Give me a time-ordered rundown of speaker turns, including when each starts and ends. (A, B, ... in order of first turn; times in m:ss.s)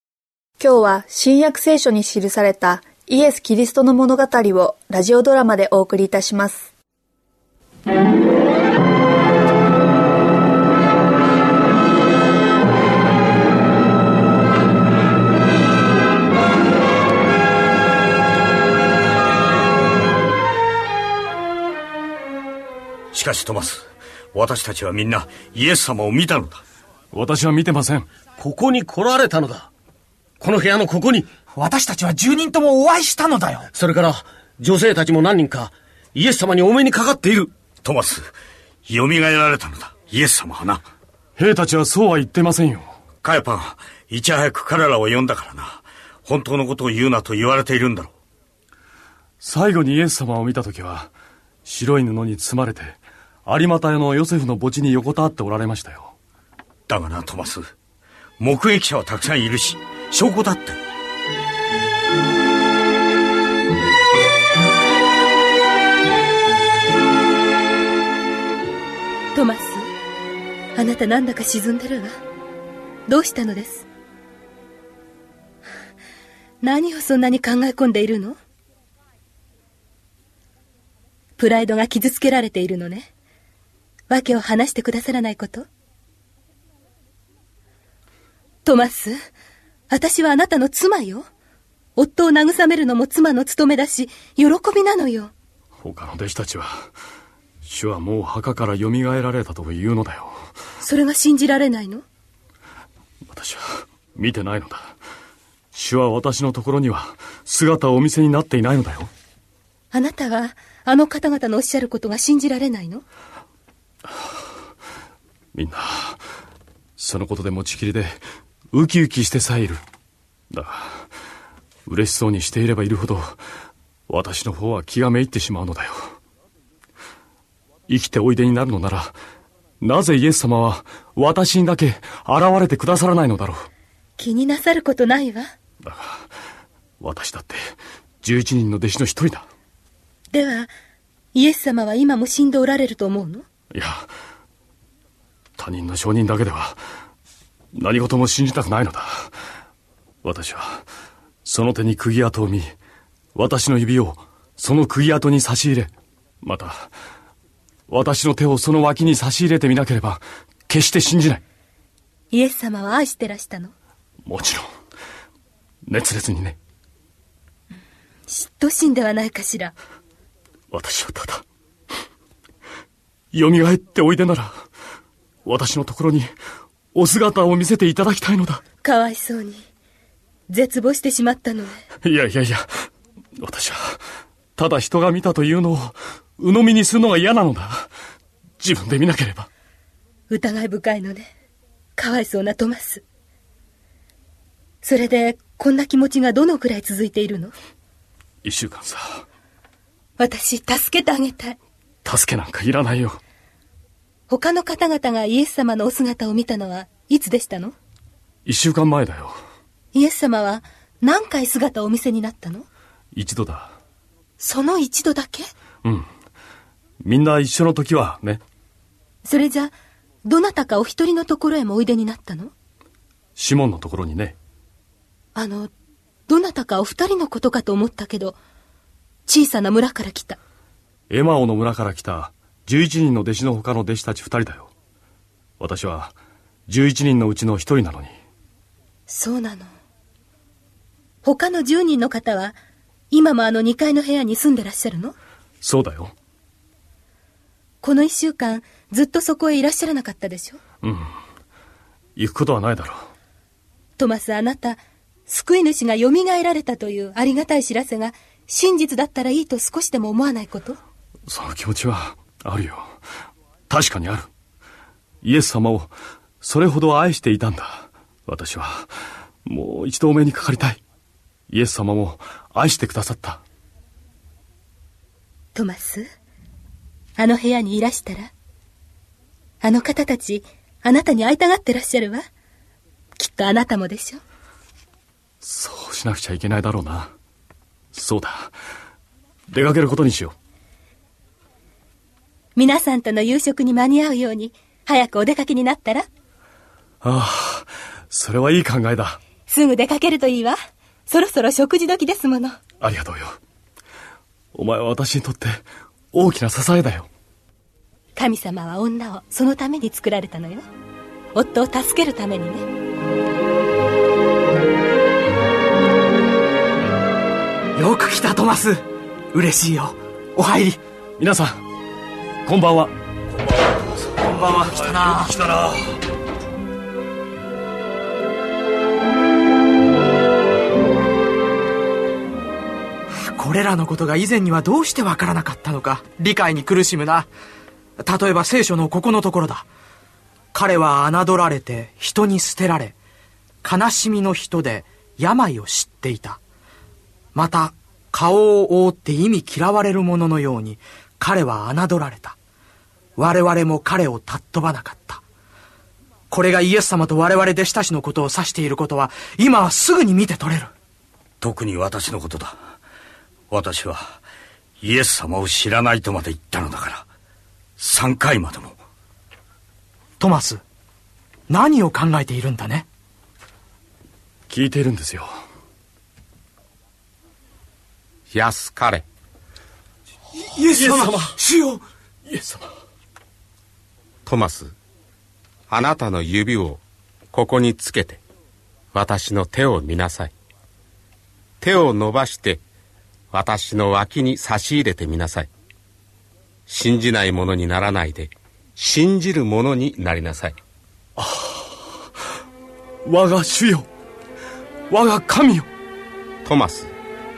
0:00.6-0:06.7 A
0:23.1-0:26.6 B
0:27.1-0:28.1 C
0:28.4-0:29.7 D
0:30.4-0:31.3 D
0:31.5-0:33.7 E
0:33.7-0:37.5 D
0:37.8-0:38.3 B
0:38.9-0:40.8 B
0:41.4-0:42.9 C
0:43.2-0:48.1 B
0:49.4-0:51.1 C
0:51.6-0:56.2 C
0:56.9-0:57.7 B
0:58.4-1:00.8 B
1:09.3-1:09.9 F
1:10.8-1:12.1 F
1:13.1-1:13.8 F
1:16.6-1:18.4 F
1:21.4-1:23.1 F
1:24.1-1:25.7 F
1:28.6-1:29.2 F
1:29.9-1:31.2 F
1:32.0-1:35.3 F
1:35.8-1:36.9 C
1:37.6-1:40.4 C
1:40.8-1:42.0 F
1:43.3-1:45.0 C
1:45.7-1:49.1 C
1:49.9-1:53.0 F
1:55.5-1:56.2 C
1:57.0-1:58.2 C
1:58.7-1:59.8 C
2:00.5-2:01.1 C
2:01.9-2:03.4 C
2:04.1-2:06.2 C
2:07.9-2:09.2 C
2:09.8-2:13.7 C
2:14.2-2:15.5 F
2:15.8-2:16.3 C
2:17.0-2:19.5 C
2:20.3-2:20.7 F
2:21.3-2:23.5 F
2:23.7-2:24.1 C
2:25.6-2:26.8 C
2:27.7-2:29.3 C
2:30.2-2:30.9 C
2:31.4-2:32.7 C
2:33.4-2:36.9 C
2:37.9-2:41.4 C
2:42.3-2:43.7 F
2:44.2-2:44.7 C
2:45.9-2:46.6 C
2:48.3-2:49.7 F
2:50.7-2:51.4 C
2:53.3-2:54.7 C
2:55.4-2:56.3 C
2:56.9-2:58.6 C
2:58.8-2:59.6 F
3:00.5-3:01.8 F
3:02.0-3:02.7 C
3:03.4-3:04.0 C
3:04.6-3:07.9 C
3:08.6-3:09.5 C
3:10.3-3:11.3 F
3:12.0-3:13.0 F
3:14.8-3:17.5 F
3:18.4-3:19.2 C
3:20.2-3:21.6 F
3:22.0-3:23.2 C
3:24.3-3:27.8 F
3:28.4-3:29.4 C
3:29.9-3:32.6 F
3:33.1-3:33.8 C
3:34.4-3:35.5 F
3:37.0-3:38.4 C
3:39.2-3:39.7 F
3:40.3-3:42.5 F
3:43.4-3:44.4 C
3:45.4-3:45.7 F
3:46.3-3:48.4 F
3:49.3-3:50.4 F
3:51.1-3:54.7 C
3:55.6-3:56.2 C
3:56.7-3:58.1 C
3:59.1-3:59.7 F
4:01.2-4:02.6 F
4:03.1-4:05.2 F
4:05.6-4:06.1 C
4:07.8-4:10.6 F
4:10.8-4:11.1 C
4:12.2-4:13.1 C
4:14.0-4:20.8 F
4:21.3-4:22.9 C
4:23.7-4:24.3 C
4:25.2-4:28.9 C
4:29.5-4:30.8 C
4:31.5-4:33.4 C
4:35.6-4:36.1 F
4:37.2-4:38.3 F
4:39.6-4:42.2 F
4:43.2-4:44.2 F
4:45.4-4:47.1 C
4:47.9-4:48.5 C
4:49.5-4:50.3 C
4:52.6-4:56.1 F
4:57.0-4:59.2 C
4:59.5-5:00.6 F
5:01.1-5:02.6 F
5:02.8-5:03.4 C
5:04.5-5:07.1 C
5:08.2-5:10.7 F
5:11.4-5:12.7 F
5:17.8-5:20.8 E
5:21.2-5:21.6 C
5:22.4-5:26.0 C
5:24.3-5:25.4 E
5:33.1-5:37.3 E
5:38.0-5:39.7 E
5:40.5-5:43.0 E
5:43.6-5:46.4 E
5:47.4-5:52.4 E
5:53.2-5:55.2 E
5:56.3-6:00.7 E
6:01.4-6:02.6 B
6:03.5-6:04.2 B
6:04.8-6:07.1 B
6:07.8-6:08.8 B
6:10.2-6:10.6 E
6:11.5-6:12.9 E
6:14.5-6:15.3 C
6:18.3-6:19.1 G
6:20.5-6:21.8 E
6:20.7-6:21.4 C
6:22.3-6:22.7 C
6:24.2-6:24.7 G
6:25.7-6:26.8 G
6:27.3-6:28.2 G
6:28.9-6:30.3 G
6:31.6-6:32.6 G
6:33.3-6:35.5 G
6:36.7-6:40.6 G
6:41.2-6:41.9 C
6:43.0-6:43.9 C
6:44.9-6:45.7 C
6:46.4-6:46.9 G